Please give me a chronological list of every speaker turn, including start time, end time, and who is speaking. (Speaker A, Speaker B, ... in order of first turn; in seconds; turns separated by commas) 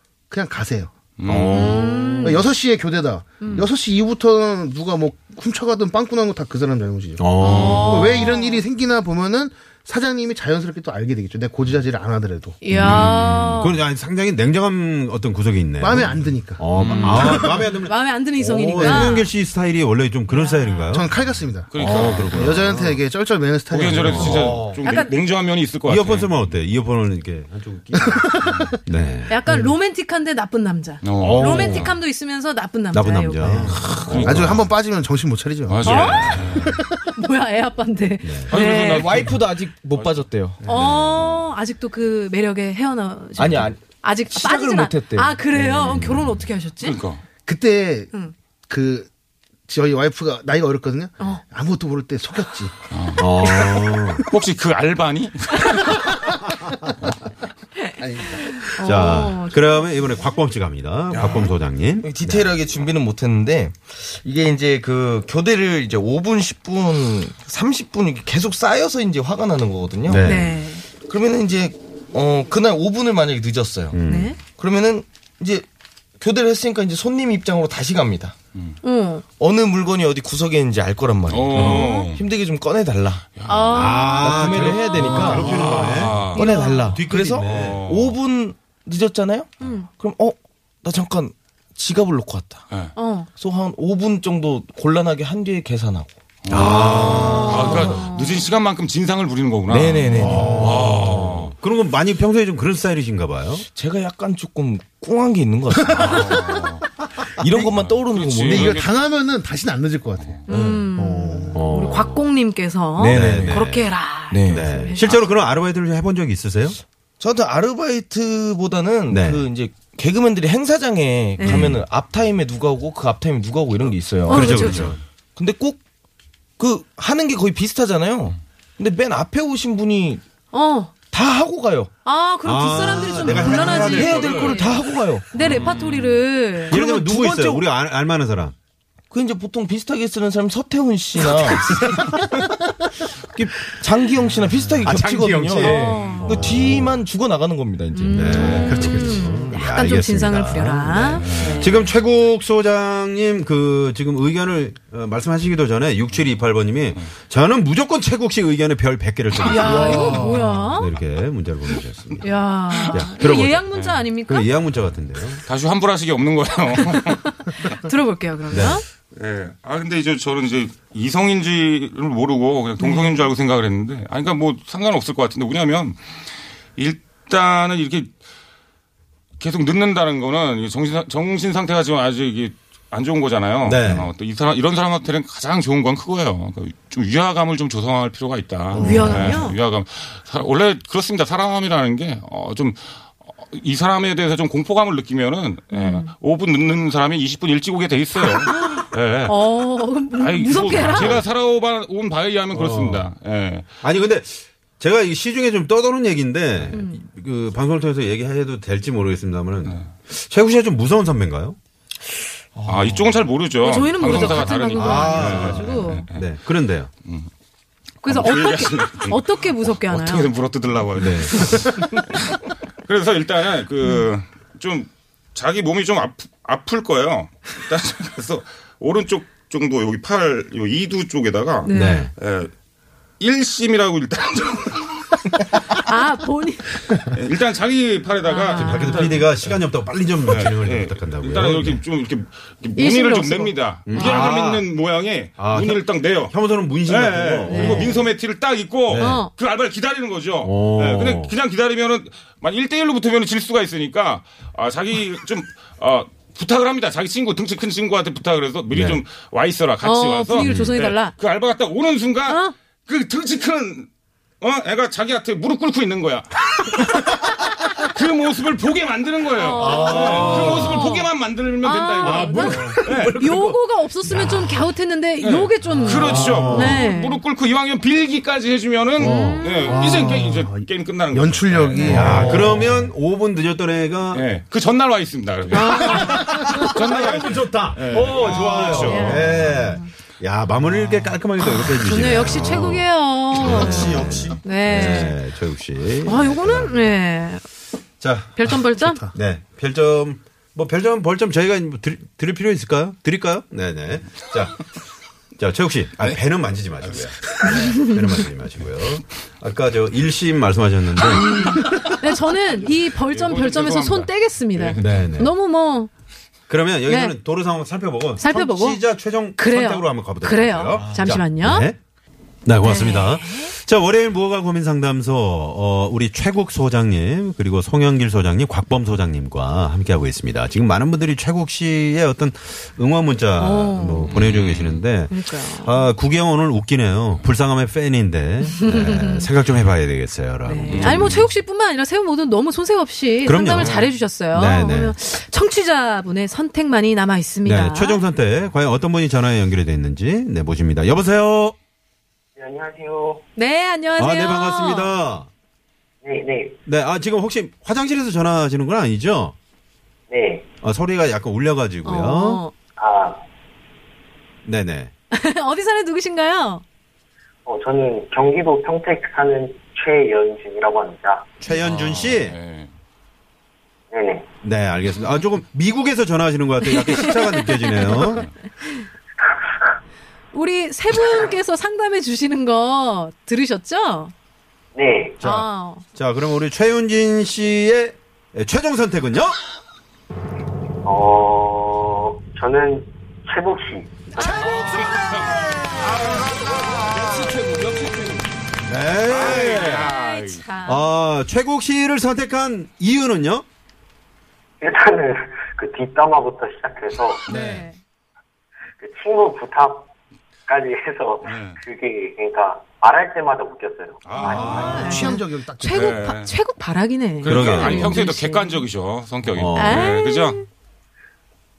Speaker A: 0.3-0.9, Speaker B: 1.2-1.7, Speaker C: 1.2-2.4, Speaker D: 1.5-2.5, Speaker A: 1.7-12.6, Speaker D: 3.4-3.7, Speaker C: 7.2-8.4, Speaker B: 7.4-7.8, Speaker D: 7.4-8.6, Speaker D: 12.6-13.8, Speaker C: 12.7-21.1, Speaker A: 15.8-17.7, Speaker B: 16.7-17.4, Speaker D: 16.9-19.3, Speaker D: 20.3-21.0, Speaker A: 20.9-24.6, Speaker B: 21.7-22.6, Speaker C: 21.7-23.0, Speaker B: 23.7-26.4, Speaker C: 24.0-24.8, Speaker D: 24.8-25.1, Speaker C: 25.8-29.4, Speaker A: 27.9-28.8, Speaker D: 29.3-33.8, Speaker A: 29.5-29.7, Speaker B: 31.0-32.0, Speaker C: 31.2-31.9, Speaker E: 31.3-31.8, Speaker C: 32.9-34.7, Speaker A: 33.4-36.9, Speaker B: 34.0-34.7, Speaker B: 35.7-36.8, Speaker C: 35.8-36.6, Speaker D: 35.8-36.4, Speaker D: 37.1-39.1, Speaker C: 38.2-38.6, Speaker B: 38.5-39.4, Speaker E: 38.8-40.6, Speaker B: 39.9-40.2, Speaker D: 40.6-47.0, Speaker C: 40.7-41.5, Speaker E: 43.4-46.0, Speaker C: 45.8-46.4, Speaker B: 46.8-47.2, Speaker A: 47.5-48.1, Speaker A: 48.7-49.1, Speaker A: 49.7-52.7, Speaker B: 52.9-53.3, Speaker C: 53.1-54.2, Speaker D: 53.4-54.2, Speaker B: 54.3-56.2, Speaker A: 58.0-58.6, Speaker D: 58.6-60.0, Speaker C: 58.8-62.5, Speaker E: 61.1-70.3, Speaker C: 70.0-70.5, Speaker D: 70.2-70.8, Speaker E: 71.0-75.7, Speaker C: 73.9-74.3, Speaker D: 74.0-74.4, Speaker E: 76.2-78.3, Speaker D: 78.8-79.2, Speaker E: 79.4-83.3, Speaker B: 81.3-82.2, Speaker C: 81.5-81.8, Speaker D: 81.5-82.1, Speaker B: 83.3-84.1, Speaker D: 83.5-87.0, Speaker C: 83.7-87.8, Speaker E: 84.2-85.8, Speaker B: 85.4-86.5, Speaker E: 86.3-92.6, Speaker B: 87.4-88.2, Speaker D: 89.6-89.9, Speaker B: 92.7-92.9, Speaker D: 92.9-93.3, Speaker E: 93.3-96.1, Speaker B: 96.4-101.5, Speaker C: 96.5-98.1, Speaker D: 97.3-98.4, Speaker E: 99.7-100.7, Speaker C: 100.2-103.7, Speaker A: 100.7-101.0, Speaker E: 103.7-106.3, Speaker B: 105.9-106.9, Speaker E: 107.2-108.9, Speaker B: 107.5-108.9, Speaker A: 108.5-111.6, Speaker E: 110.5-110.9, Speaker D: 110.5-115.2, Speaker C: 111.5-112.3, Speaker E: 113.0-113.7, Speaker C: 113.1-113.9, Speaker E: 114.3-115.2, Speaker C: 114.5-116.8, Speaker E: 117.2-124.8, Speaker C: 119.1-119.4, Speaker D: 121.4-121.8, Speaker C: 121.4-121.8, Speaker D: 124.2-125.0, Speaker C: 124.3-125.0, Speaker E: 125.3-125.8, Speaker E: 126.6-130.2, Speaker D: 130.5-130.9, Speaker E: 131.1-131.9, Speaker D: 132.0-136.8, Speaker C: 132.4-134.7, Speaker E: 133.2-135.4, Speaker B: 135.4-136.2, Speaker C: 135.4-135.7, Speaker C: 136.7-138.5, Speaker E: 136.7-137.7, Speaker E: 139.1-142.0, Speaker E: 143.3-149.2, Speaker C: 144.8-147.0, Speaker D: 145.6-146.6, Speaker D: 147.9-151.8, Speaker C: 148.1-162.3, Speaker B: 151.1-151.9, Speaker D: 159.4-160.9, Speaker E: 159.5-159.8, Speaker A: 159.7-160.6, Speaker D: 162.2-164.5, Speaker B: 162.7-163.0, Speaker C: 162.9-165.4, Speaker B: 163.7-164.1, Speaker B: 165.4-167.8, Speaker D: 166.9-168.8, Speaker C: 168.5-168.8, Speaker B: 169.1-176.2, Speaker D: 172.8-173.3, Speaker B: 176.8-178.1, Speaker B: 179.4-203.7, Speaker C: 183.6-184.1, Speaker C: 188.7-189.4, Speaker D: 188.7-189.6, Speaker D: 195.7-196.1, Speaker D: 198.5-201.2, Speaker C: 200.7-201.2, Speaker C: 202.5-203.1, Speaker C: 203.8-211.6, Speaker D: 206.7-207.0, Speaker B: 209.6-209.9, Speaker E: 212.5-213.3, Speaker B: 212.7-216.3, Speaker D: 213.6-216.1, Speaker C: 214.0-216.9, Speaker B: 217.0-217.3, Speaker D: 218.0-220.3, Speaker B: 218.0-232.5, Speaker C: 221.0-221.7, Speaker D: 221.3-221.7, Speaker D: 231.6-232.1, Speaker C: 231.7-232.1, Speaker B: 233.2-235.2, Speaker D: 235.7-236.8, Speaker B: 237.1-239.6, Speaker D: 238.2-239.2, Speaker C: 238.5-241.8, Speaker B: 240.2-263.9, Speaker D: 242.8-244.2, Speaker C: 243.9-244.7, Speaker C: 245.4-248.1, Speaker D: 247.5-248.0, Speaker C: 248.9-249.2, Speaker D: 249.0-249.3, Speaker C: 250.4-251.3, Speaker C: 258.7-259.0, Speaker D: 259.8-261.1, Speaker C: 260.3-260.8, Speaker D: 262.3-262.5, Speaker B: 264.4-273.3, Speaker D: 269.3-271.1, Speaker C: 269.6-270.9, Speaker D: 271.6-277.2, Speaker C: 272.0-274.7, Speaker B: 275.2-282.5, Speaker C: 275.8-276.9, Speaker C: 279.0-279.4, Speaker D: 279.0-280.1, Speaker A: 279.6-282.7, Speaker C: 281.8-284.2, Speaker E: 282.0-282.8, Speaker B: 284.1-289.5, Speaker D: 285.5-286.9, Speaker C: 285.6-286.0, Speaker A: 286.1-286.5, Speaker C: 286.6-297.0, Speaker D: 288.6-289.9, Speaker D: 291.4-295.2, Speaker E: 293.6-294.4, Speaker D: 296.0-297.4, Speaker C: 298.0-304.7, Speaker D: 298.4-299.0, Speaker A: 298.7-299.1, Speaker C: 305.4-311.7, Speaker D: 307.4-308.2, Speaker D: 311.1-315.9, Speaker B: 311.6-311.9, Speaker B: 312.5-315.0, Speaker C: 314.8-315.3, Speaker C: 316.5-321.8, Speaker D: 316.9-317.2, Speaker D: 318.2-318.8, Speaker D: 319.4-321.7, Speaker C: 322.4-341.2, Speaker D: 322.6-323.5, Speaker D: 333.4-334.2, Speaker B: 334.1-334.8, Speaker D: 335.1-335.9, Speaker D: 338.5-339.3, Speaker D: 340.4-348.0, Speaker B: 340.6-341.3, Speaker C: 343.2-344.9, Speaker B: 343.6-343.9, Speaker C: 347.4-351.5, Speaker F: 352.4-353.2, Speaker D: 353.4-354.9, Speaker C: 354.0-355.3, Speaker F: 356.0-356.6, Speaker C: 356.7-359.3, Speaker F: 360.1-360.4, Speaker C: 360.6-362.4, Speaker D: 361.8-362.5, Speaker F: 362.8-363.2, Speaker C: 364.4-364.9, Speaker D: 365.1-366.6, Speaker F: 367.4-371.3, Speaker C: 371.4-372.4, Speaker B: 371.5-372.7, Speaker F: 373.9-374.3, Speaker C: 374.4-378.2, Speaker D: 376.6-378.8, Speaker D: 380.3-384.1, Speaker F: 384.7-385.2, Speaker C: 385.2-389.4, Speaker D: 385.2-385.8, Speaker F: 390.8-394.6, Speaker B: 394.4-396.3, Speaker E: 396.1-398.3, Speaker C: 398.6-399.9, Speaker B: 399.1-400.4, Speaker D: 399.5-400.9, Speaker C: 400.6-403.4, Speaker F: 404.6-407.3, Speaker C: 407.3-407.7, Speaker D: 407.3-407.8, Speaker F: 408.8-409.9, Speaker F: 410.5-414.7, Speaker B: 411.2-411.6, Speaker B: 414.0-416.3, Speaker D: 414.1-418.7, Speaker C: 414.2-415.2, Speaker A: 414.6-416.0, Speaker B: 417.2-420.4, Speaker C: 417.2-418.0, Speaker C: 419.2-419.9, Speaker D: 419.5-420.4